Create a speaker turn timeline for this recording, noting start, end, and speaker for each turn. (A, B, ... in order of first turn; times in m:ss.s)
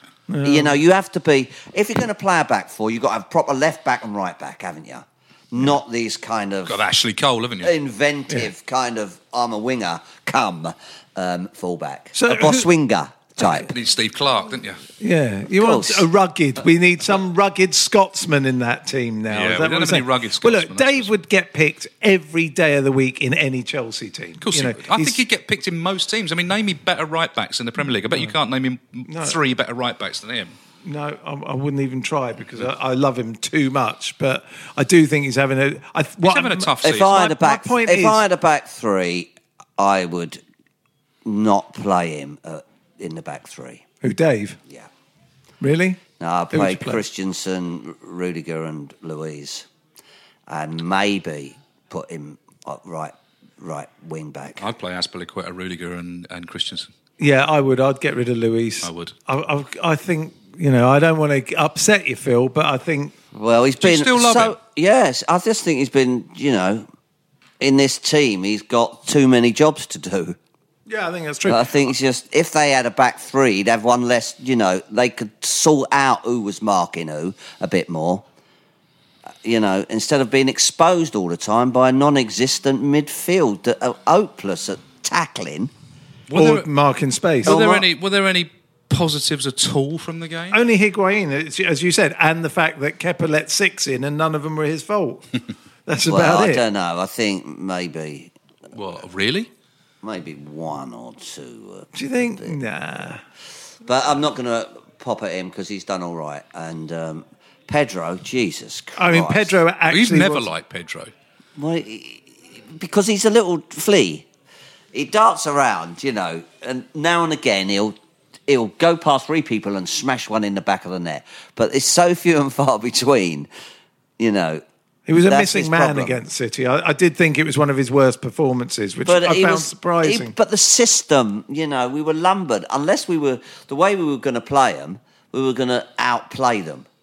0:00.3-0:00.8 A
0:00.4-0:06.8 B
0:06.6-0:07.7 C
0:07.6-0:13.7 B
0:12.1-0:12.7 A
0:13.4-0:14.8 C
0:15.0-0:25.2 A
0:15.6-0:16.0 B
0:19.3-0:21.1 C
0:24.4-0:30.5 C
0:29.1-0:29.4 A
0:30.8-0:38.2 A
0:36.2-0:37.2 C
0:36.8-0:40.4 B
0:41.2-0:43.8 B
0:44.0-0:44.6 A
0:45.6-0:46.0 A
0:46.2-0:49.7 B
0:46.5-0:47.0 A
0:50.5-0:54.6 B
0:54.6-0:56.9 C
0:57.2-1:03.2 A
0:58.8-0:59.1 C
1:03.3-1:06.8 B
1:03.8-1:04.6 C
1:07.6-1:10.4 B
1:10.9-1:11.9 A
1:11.4-1:18.2 B
1:19.4-1:25.7 B
1:26.3-1:26.7 C
1:26.3-1:27.7 A
1:27.4-1:30.6 C
1:27.4-1:27.8 B
1:30.5-1:35.2 A
1:35.9-1:36.6 A
1:36.0-1:38.3 B
1:38.7-1:39.5 C
1:40.0-1:42.5 B
1:41.9-1:43.2 A
1:43.8-1:49.6 B
1:49.0-1:50.5 A
1:49.9-1:51.1 C
1:51.6-1:54.2 B
1:54.9-1:58.0 B
1:58.5-2:03.5 B
2:04.2-2:04.6 B
2:05.1-2:10.3 A
2:05.2-2:06.1 B
2:09.0-2:16.8 B